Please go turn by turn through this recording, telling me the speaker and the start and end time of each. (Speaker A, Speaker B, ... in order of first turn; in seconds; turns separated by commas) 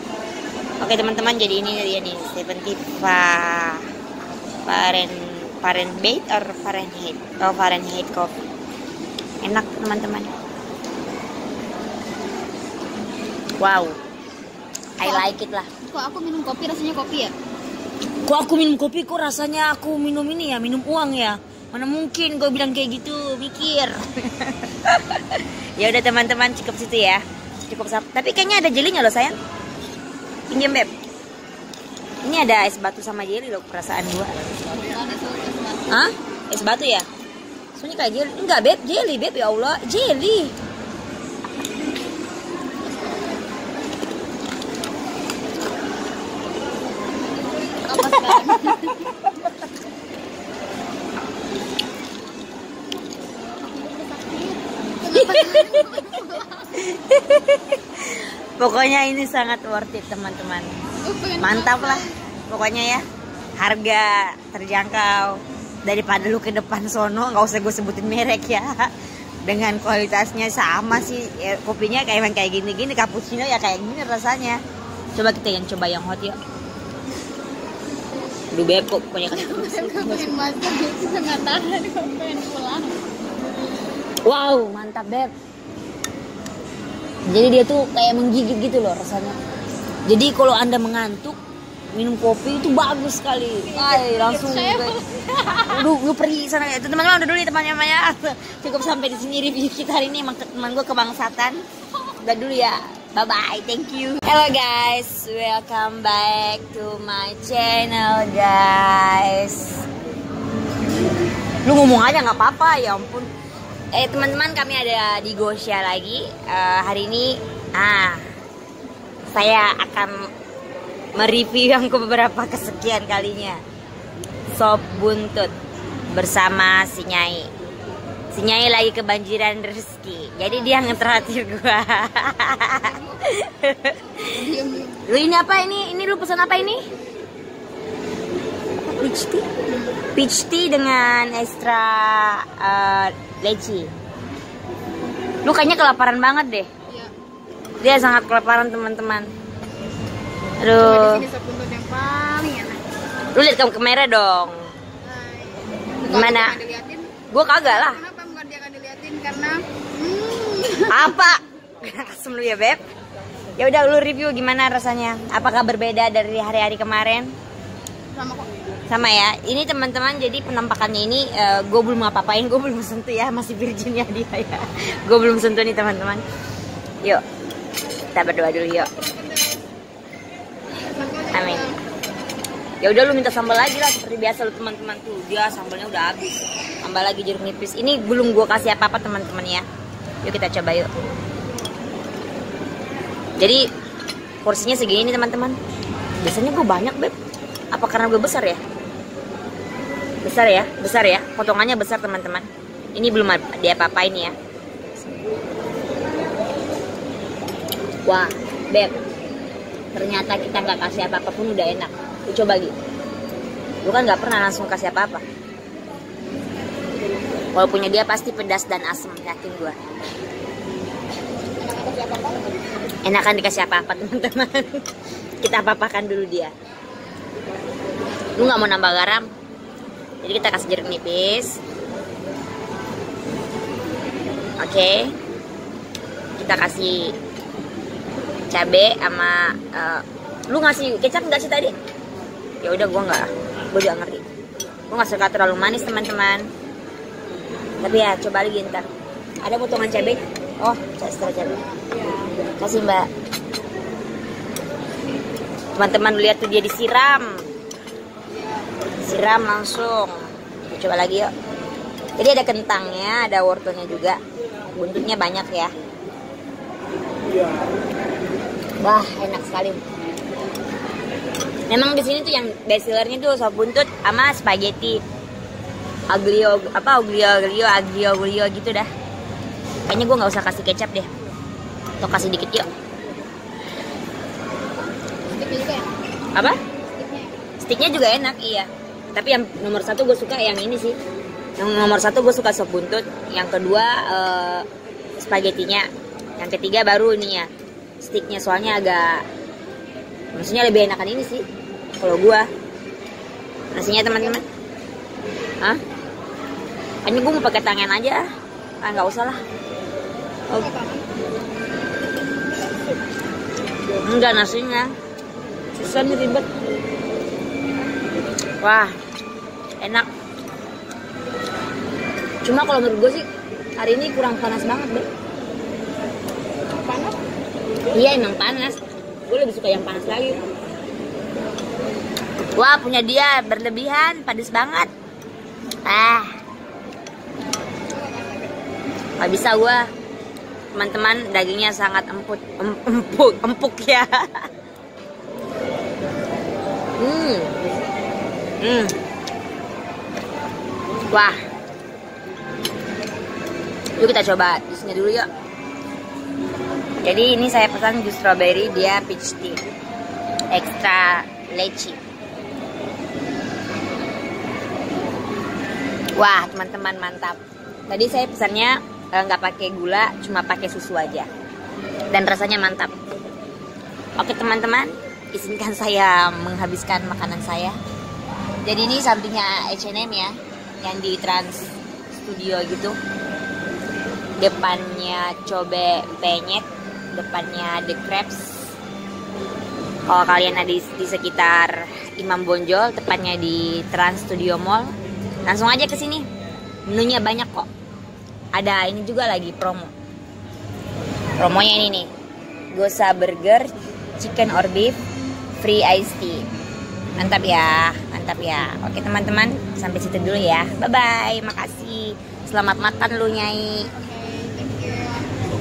Speaker A: 0.8-3.9, Speaker A: 4.7-8.3, Speaker A: 9.4-10.3, Speaker A: 13.6-14.0, Speaker A: 15.0-15.7, Speaker B: 15.0-15.3, Speaker B: 15.8-17.4, Speaker A: 18.2-29.4, Speaker A: 30.5-30.9, Speaker A: 32.2-34.5, Speaker B: 34.7-36.0, Speaker A: 35.9-37.1, Speaker A: 37.8-40.5, Speaker B: 47.9-49.2, Speaker A: 48.2-48.5, Speaker B: 53.4-56.9, Speaker A: 55.1-56.1, Speaker A: 56.7-60.7, Speaker B: 61.0-62.2, Speaker A: 61.4-63.0, Speaker A: 63.6-68.9, Speaker A: 69.5-74.6, Speaker A: 75.2-76.4, Speaker A: 78.5-80.3, Speaker B: 79.3-83.0, Speaker A: 84.2-85.3, Speaker A: 87.3-89.4, Speaker A: 90.1-91.4, Speaker A: 91.9-95.0, Speaker B: 93.7-95.8, Speaker A: 95.7-109.8, Speaker A: 111.7-113.3, Speaker A: 113.9-118.2, Speaker A: 119.3-120.3, Speaker A: 121.2-123.6, Speaker A: 124.5-125.5, Speaker A: 126.1-127.5, Speaker A: 128.3-134.3, Speaker B: 130.7-130.9, Speaker B: 134.3-135.1, Speaker A: 135.1-136.8, Speaker A: 138.9-139.5, Speaker B: 139.7-140.0, Speaker A: 140.2-143.9, Speaker A: 145.4-146.7, Speaker B: 146.9-147.1, Speaker A: 147.8-149.3, Speaker A: 150.6-151.2, Speaker B: 150.7-152.8, Speaker A: 153.3-154.7, Speaker B: 155.0-161.3, Speaker A: 156.1-156.6, Speaker A: 157.3-158.0, Speaker A: 160.9-162.8, Speaker A: 163.6-167.3, Speaker B: 168.1-168.5, Speaker A: 168.9-176.2, Speaker A: 178.1-178.9, Speaker B: 178.8-179.7, Speaker B: 180.8-181.8, Speaker A: 181.3-181.7, Speaker A: 182.8-189.7, Speaker A: 190.2-190.9, Speaker A: 193.4-193.6, Speaker A: 194.4-195.6, Speaker A: 196.2-197.1, Speaker A: 197.7-198.6, Speaker A: 200.2-204.3, Speaker A: 208.1-209.0, Speaker A: 209.9-212.8, Speaker A: 213.8-215.2, Speaker A: 217.5-219.8, Speaker B: 221.6-222.7, Speaker A: 223.0-224.8, Speaker A: 225.4-226.5, Speaker A: 228.3-229.3, Speaker A: 230.2-231.6, Speaker A: 234.6-235.1, Speaker A: 236.4-237.2, Speaker A: 238.5-241.8, Speaker A: 242.6-244.2, Speaker A: 244.9-246.5, Speaker A: 247.8-248.8, Speaker A: 249.4-251.6, Speaker B: 251.4-251.8, Speaker A: 252.6-253.1, Speaker A: 255.8-257.5, Speaker B: 258.3-258.6, Speaker A: 259.0-261.3, Speaker A: 262.2-264.2, Speaker A: 264.7-265.7, Speaker A: 268.8-269.8, Speaker A: 271.7-275.0, Speaker A: 276.1-278.9, Speaker A: 279.9-281.1, Speaker A: 282.0-282.7, Speaker B: 285.3-286.0, Speaker B: 286.8-287.4, Speaker A: 287.6-291.0, Speaker A: 291.6-294.7, Speaker A: 295.2-295.9, Speaker A: 296.4-297.5, Speaker A: 298.0-299.2, Speaker A: 300.3-301.4, Speaker A: 302.0-302.5, Speaker A: 303.8-304.4, Speaker A: 307.1-308.2, Speaker A: 308.8-309.4, Speaker B: 310.6-311.1, Speaker A: 314.0-314.9, Speaker A: 315.8-316.5, Speaker A: 318.6-318.9, Speaker A: 319.8-320.1, Speaker A: 322.4-323.2, Speaker A: 323.8-325.1, Speaker B: 326.9-327.1, Speaker A: 327.9-330.4, Speaker A: 332.6-334.9, Speaker A: 335.9-336.3, Speaker B: 337.9-338.4, Speaker A: 339.2-339.9, Speaker A: 340.7-344.4, Speaker A: 347.0-347.6, Speaker A: 348.6-348.9, Speaker A: 351.1-351.4, Speaker A: 354.0-355.3, Speaker A: 357.0-359.6, Speaker A: 360.5-362.0, Speaker A: 366.2-371.3, Speaker A: 372.1-372.9, Speaker A: 374.2-377.8, Speaker A: 378.6-383.0, Speaker A: 384.4-388.6, Speaker A: 390.1-394.9, Speaker A: 395.5-396.3, Speaker A: 396.9-397.7, Speaker A: 398.5-399.9, Speaker A: 401.4-402.1, Speaker A: 402.7-405.0, Speaker A: 405.6-406.4, Speaker A: 407.2-413.9, Speaker B: 413.9-415.3